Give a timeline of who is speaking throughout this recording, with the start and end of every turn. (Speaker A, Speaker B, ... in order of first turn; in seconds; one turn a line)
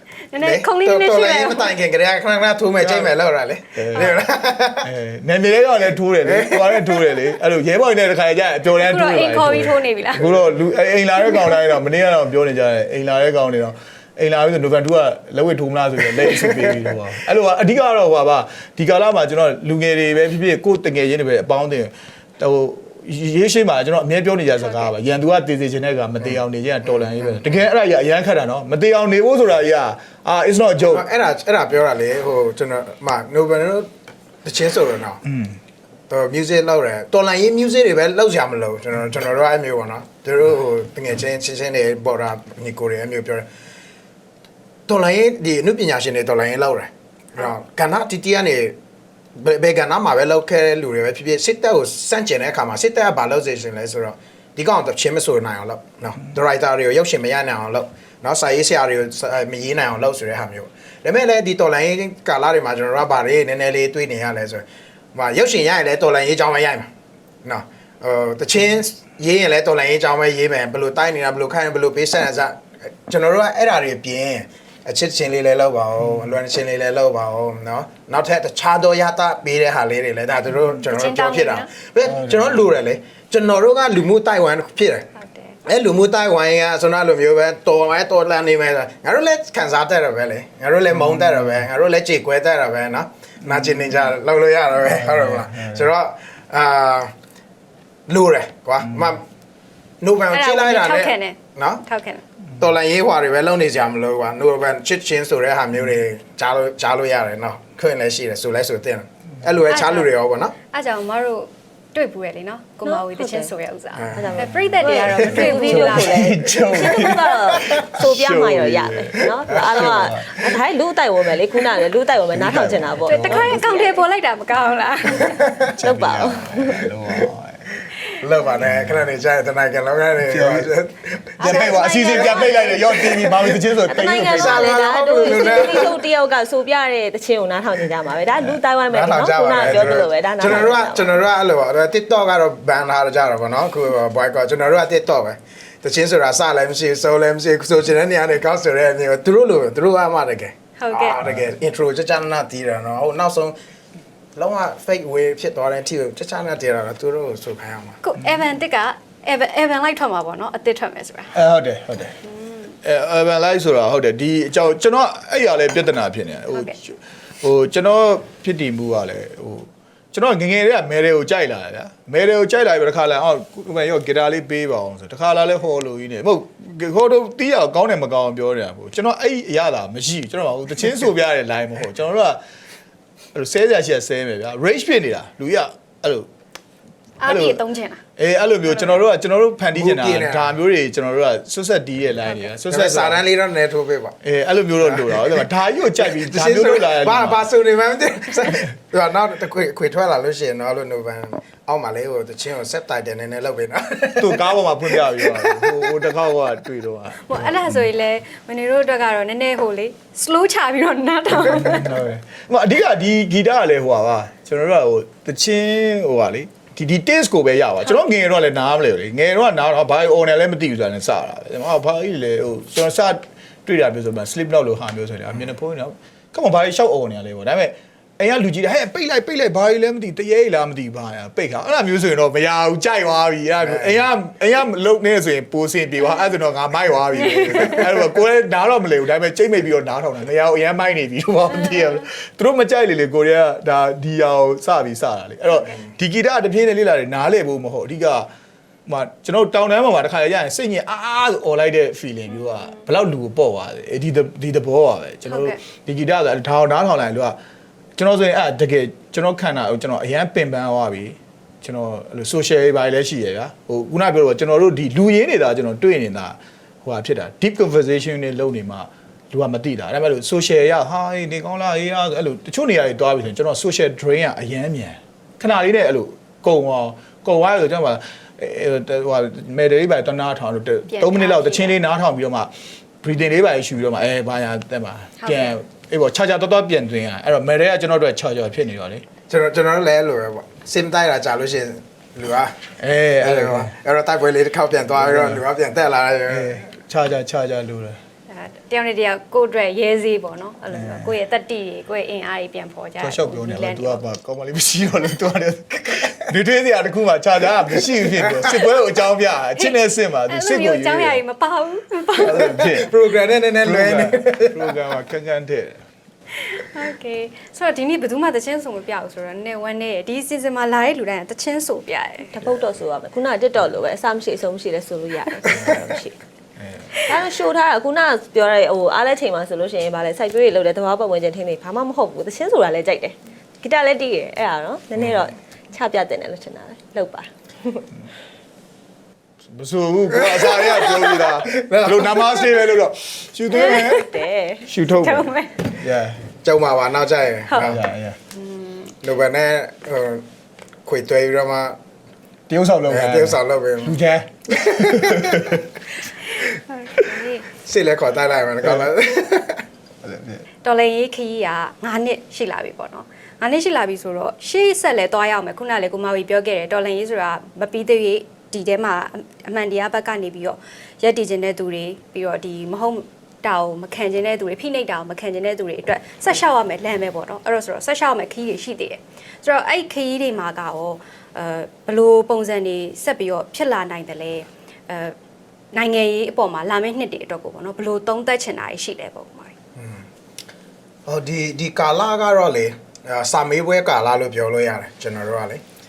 Speaker A: 0.3-1.7
Speaker B: 0.4-4.9
Speaker C: 2.8-3.1
Speaker C: 3.7-4.1
Speaker C: 4.8-31.0
Speaker B: 6.2-7.2
Speaker A: 8.8-10.3
Speaker B: 26.9-27.5
Speaker B: 30.8-33.9
Speaker B: 34.4-35.2
Speaker C: 35.2-35.6
Speaker B: 36.1-43.5
Speaker B: 44.9-48.8
Speaker B: 49.3-66.9
Speaker B: 67.4-85.1
Speaker A: 80.8-81.7
Speaker C: 82.2-82.5
Speaker A: 85.2-85.5
Speaker B: 85.7-97.1
Speaker C: 91.0-91.5
Speaker C: 94.8-95.9
Speaker B: 98.1-99.2
Speaker B: 100.0-101.8
Speaker A: 100.3-102.2
Speaker B: 102.6-110.5
Speaker A: 109.7-110.1
Speaker A: 110.7-116.5
Speaker D: 112.8-113.5
Speaker B: 113.9-114.3
Speaker D: 114.1-124.0
Speaker C: 114.3-120.5
Speaker B: 119.5-120.1
Speaker C: 122.3-123.6
Speaker A: 123.0-125.4
Speaker B: 125.3-125.7
Speaker C: 125.7-127.8
Speaker D: 125.8-126.9
Speaker B: 128.2-133.6
Speaker C: 128.6-129.1
Speaker C: 130.2-130.7
Speaker A: 131.4-133.2
Speaker C: 131.4-135.9
Speaker D: 133.8-141.2
Speaker B: 134.2-136.0
Speaker B: 138.9-153.5
Speaker C: 139.6-140.7
Speaker A: 150.8-151.2
Speaker B: 154.3-158.0
Speaker A: 158.0-161.3
Speaker C: 161.3-162.2
Speaker C: 162.8-182.4
Speaker C: 183.3-186.3
Speaker A: 187.2-188.0
Speaker C: 187.2-187.6
Speaker C: 188.2-193.2
Speaker B: 189.7-190.6
Speaker B: 192.7-194.2
Speaker C: 194.2-197.5
Speaker B: 194.8-195.4
Speaker B: 196.0-205.9
Speaker C: 204.2-207.8
Speaker A: 207.2-212.0
Speaker C: 211.3-248.3
Speaker B: 233.6-234.0
Speaker C: 248.8-257.3
Speaker A: 255.3-255.6
Speaker C: 258.0-282.5
Speaker A: 280.9-281.8
Speaker C: 283.0-289.0
Speaker A: 285.2-285.6
Speaker B: 289.3-292.6
Speaker C: 292.8-293.7
Speaker B: 293.2-296.6
Speaker C: 294.9-295.4
Speaker C: 296.3-298.0
Speaker A: 298.3-304.0
Speaker C: 300.7-301.1
Speaker C: 303.0-311.2
Speaker A: 310.3-312.7
Speaker C: 312.2-312.9
Speaker B: 312.5-314.7
Speaker C: 313.6-315.8
Speaker A: 316.4-322.3
Speaker D: 322.3-326.1
Speaker C: 325.5-326.0
Speaker C: 326.6-326.9
Speaker D: 327.0-337.9
Speaker C: 334.9-335.2
Speaker C: 339.5-344.1
Speaker B: 340.1-342.5
Speaker D: 343.5-344.7
Speaker A: 343.5-344.1
Speaker C: 344.6-346.2
Speaker A: 344.9-345.7
Speaker B: 346.4-347.8
Speaker C: 347.6-348.2
Speaker A: 348.3-348.9
Speaker B: 349.0-350.2
Speaker B: 350.8-351.8
Speaker C: 352.5-355.6
Speaker B: 352.9-354.0
Speaker B: 354.5-355.5
Speaker A: 356.7-357.4
Speaker B: 357.5-359.6
Speaker C: 360.0-360.4
Speaker A: 360.6-385.1
Speaker A: 385.7-389.5
Speaker B: 389.8-390.0
Speaker B: 391.1-395.6